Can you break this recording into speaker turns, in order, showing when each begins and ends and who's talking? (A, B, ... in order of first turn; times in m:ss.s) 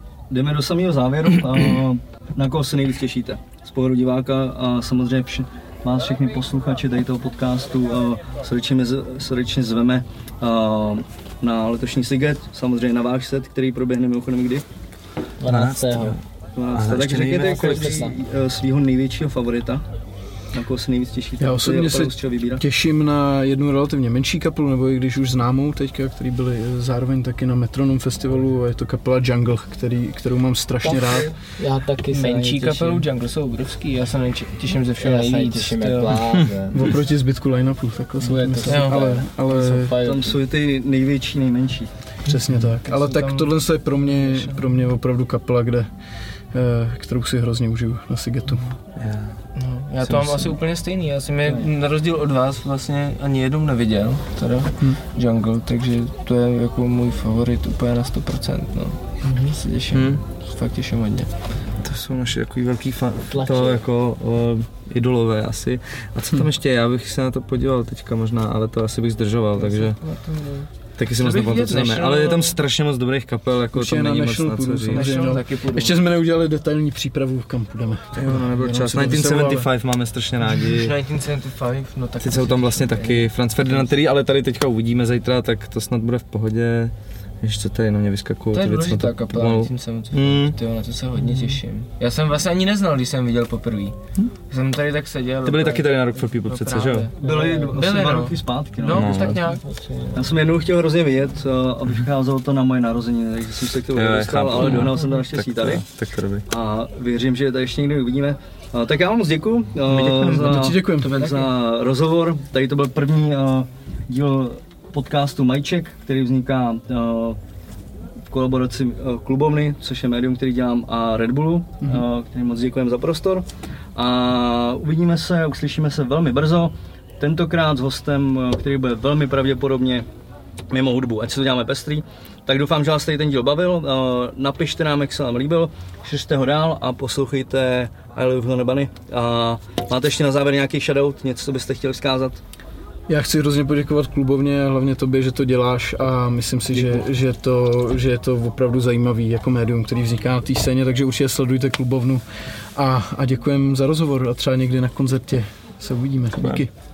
0:00.3-0:14.6 A
0:15.4-0:16.2 B
0:15.4-0:16.2 C
0:16.6-0:19.8 A
0:16.7-0:18.1 C
0:17.4-0:18.1 B
0:20.5-0:22.6 A
0:21.4-0:31.3 D
0:30.8-0:33.0 B
0:32.1-0:36.5 E
0:35.0-0:36.9 B
0:36.7-0:40.0 D
0:38.3-0:40.2 E
0:38.3-0:40.3 B
0:40.0-0:41.9 A
0:42.2-0:45.9 D
0:42.3-0:43.5 E
0:44.2-0:44.5 E
0:46.5-0:48.7 D
0:49.0-0:49.4 C
0:49.6-1:01.3 E
0:59.9-1:00.2 C
1:01.8-1:10.0 C
1:03.3-1:03.8 B
1:09.6-1:12.6 E
1:11.0-1:15.2 C
1:13.7-1:19.7 D
1:14.9-1:16.0 E
1:18.1-1:20.9 C
1:20.6-1:23.9 E
1:22.2-1:30.6 C
1:28.5-1:34.0 E
1:34.5-1:40.1 E
1:35.4-1:37.1 C
1:37.2-1:39.3 A
1:37.2-1:37.6 B
1:38.9-1:39.4 C
1:40.1-1:45.8 A
1:43.9-1:46.4 C
1:46.5-1:57.4 A
1:49.9-1:50.6 C
1:50.4-1:51.2 D
1:51.1-1:51.5 E
1:58.3-2:10.0 A
2:10.7-2:22.4 A
2:23.1-2:32.2 D
2:32.7-2:36.7 D